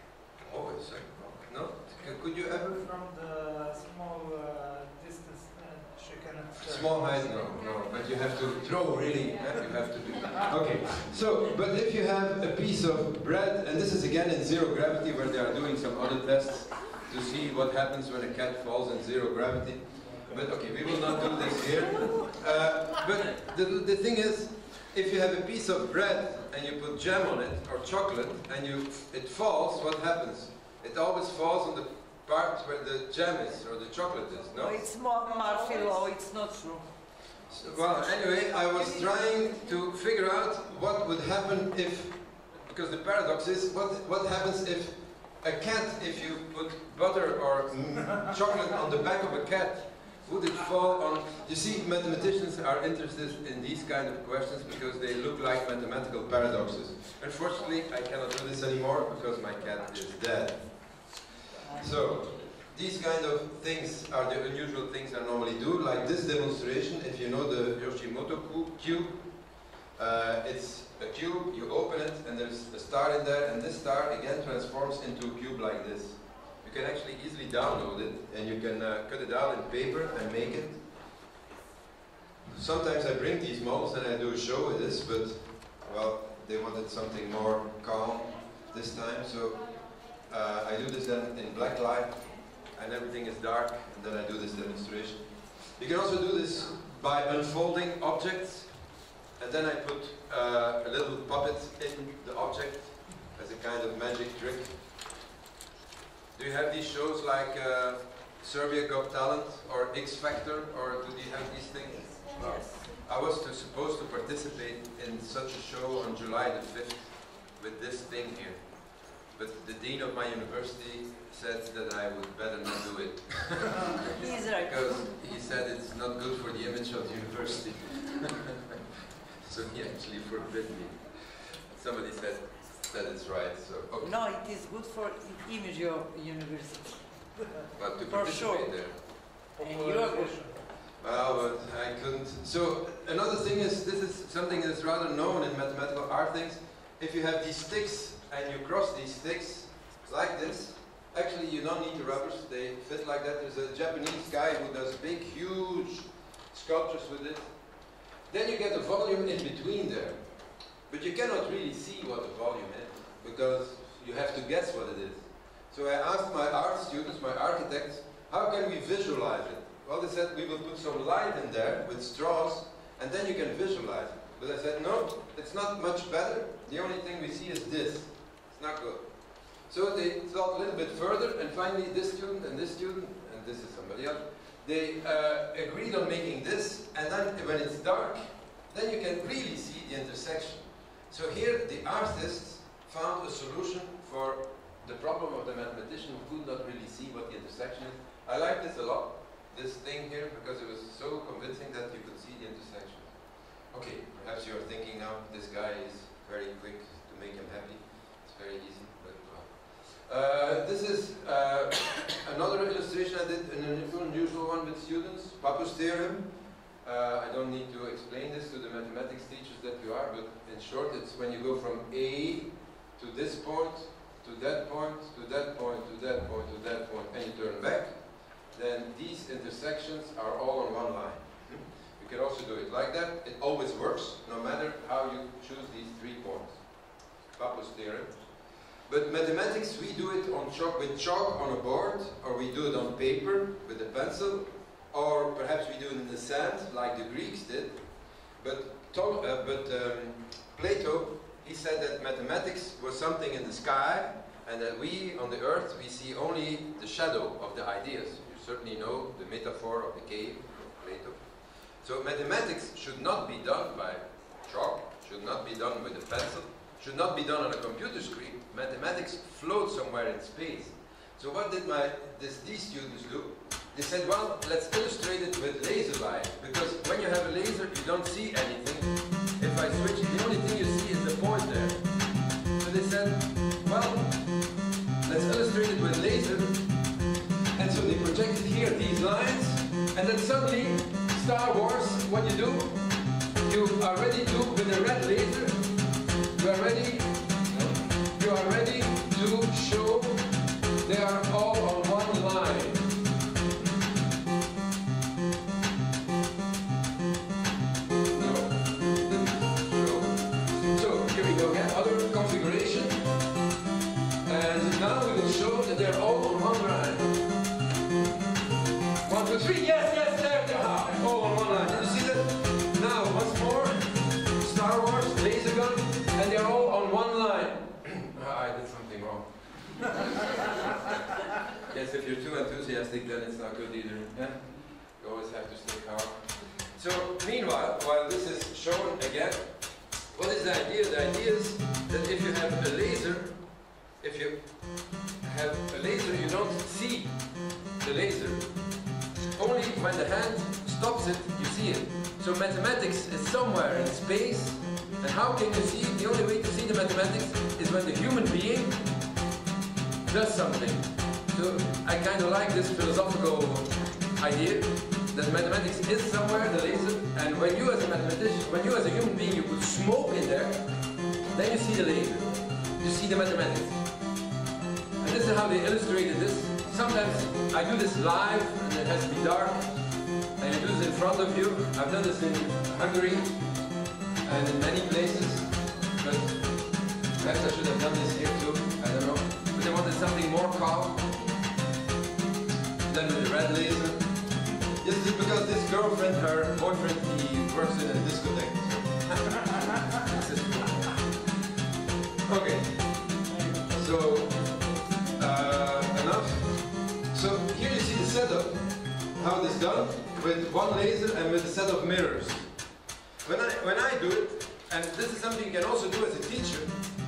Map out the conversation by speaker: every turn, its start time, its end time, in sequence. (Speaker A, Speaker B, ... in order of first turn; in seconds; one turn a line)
Speaker A: 0.4-2.8
Speaker B: 2.8-7.1
Speaker A: 6.6-34.8
Speaker B: 20.1-20.4
Speaker C: 34.5-36.9
Speaker A: 37.5-80.8
Speaker C: 61.6-62.0
Speaker A: 82.5-104.7
Speaker A: 106.3-124.0
Speaker C: 112.3-112.8
Speaker C: 124.1-125.1
Speaker A: 124.6-128.6
Speaker A: 129.4-134.1
Speaker C: 134.0-137.4
Speaker A: 137.7-139.0
Speaker C: 138.1-138.9
Speaker C: 139.4-140.5
Speaker B: 139.6-140.6
Speaker A: 141.0-157.5
Speaker A: 158.3-216.3
Speaker A: 216.8-261.3
Speaker A: 261.8-281.8
Speaker A: 282.6-286.7
Speaker A: 287.5-292.9
Speaker A: 293.4-295.8
Speaker A: 296.3-300.3
Speaker A: 300.8-302.9
Speaker A: 308.1-313.1
Speaker A: 314.2-317.2
Speaker A: 319.0-329.9
Speaker A: 331.6-348.6
Speaker A: 349.3-358.8
Speaker A: 360.1-370.7
Speaker A: 371.3-373.8
Speaker A: 375.0-383.3
Speaker A: 384.2-391.2
Speaker A: 392.9-394.1
Speaker A: 394.8-401.0
Speaker A: 402.2-412.5
Speaker A: 413.2-416.8